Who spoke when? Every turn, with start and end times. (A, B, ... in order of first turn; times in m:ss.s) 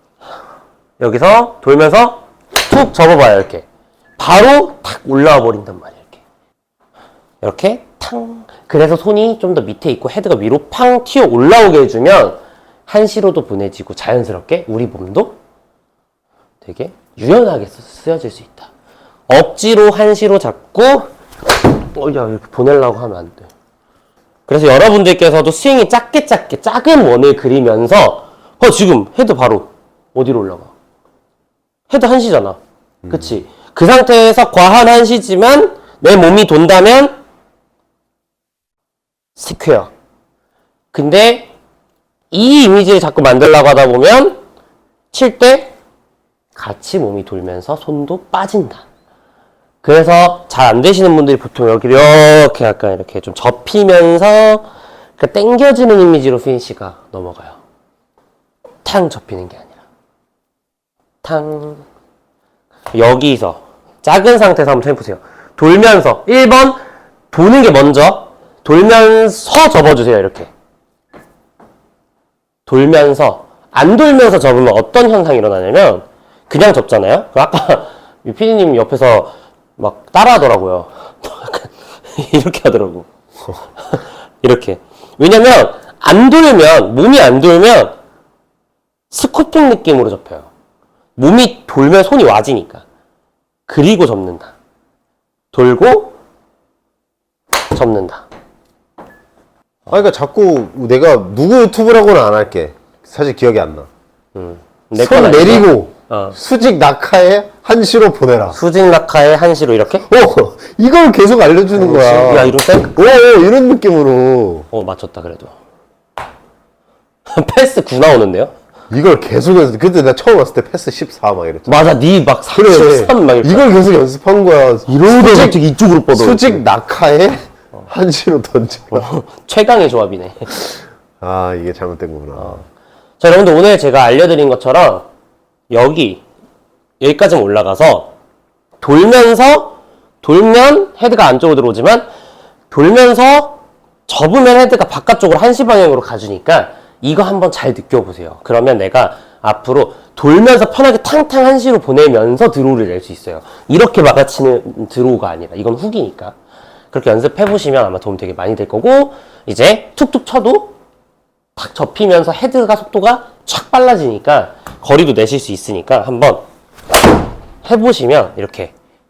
0:01.0-0:03.6 A
0:04.2-0:06.2 A
0:07.4-0:15.4 A
0:16.6-0:18.7 A
0:19.3-0:23.5 A
0:24.5-0:30.7 A
0:31.9-0:32.6 A
0:33.0-0:33.4 B
0:33.1-0:37.2 A
0:39.4-0:39.9 A
0:40.9-0:41.5 A
0:42.3-0:44.4 A
0:45.1-0:45.7 A
0:46.5-0:48.8 A
0:49.8-0:57.6 A
0:58.8-0:59.8 A
1:01.2-1:01.8 A
1:02.9-1:06.8 A
1:07.3-1:10.5 A
1:12.6-1:23.1 A
1:23.9-1:28.0 A
1:29.1-1:30.5 A
1:31.2-1:32.8 A
1:33.7-1:34.5 A
1:35.5-1:36.2 A
1:37.7-1:38.2 A
1:39.9-1:43.9 B
1:44.3-1:46.4 A
1:45.0-1:48.6 B
1:48.5-1:50.0 A
1:50.0-1:54.7 B
1:51.7-1:53.0 A
1:54.7-1:55.5 A
1:57.3-1:58.5 A
1:58.9-2:01.9 B
2:01.6-2:03.7 A
2:02.5-2:09.1 B
2:04.9-2:06.6 A
2:08.9-2:10.6 A
2:11.2-2:12.6 B
2:13.2-2:15.1 A
2:15.7-2:16.2 A
2:17.0-2:18.1 A
2:18.8-2:22.0 A
2:22.7-2:36.3 A
2:36.9-2:40.8 A
2:41.6-2:46.4 A
2:47.6-2:48.7 A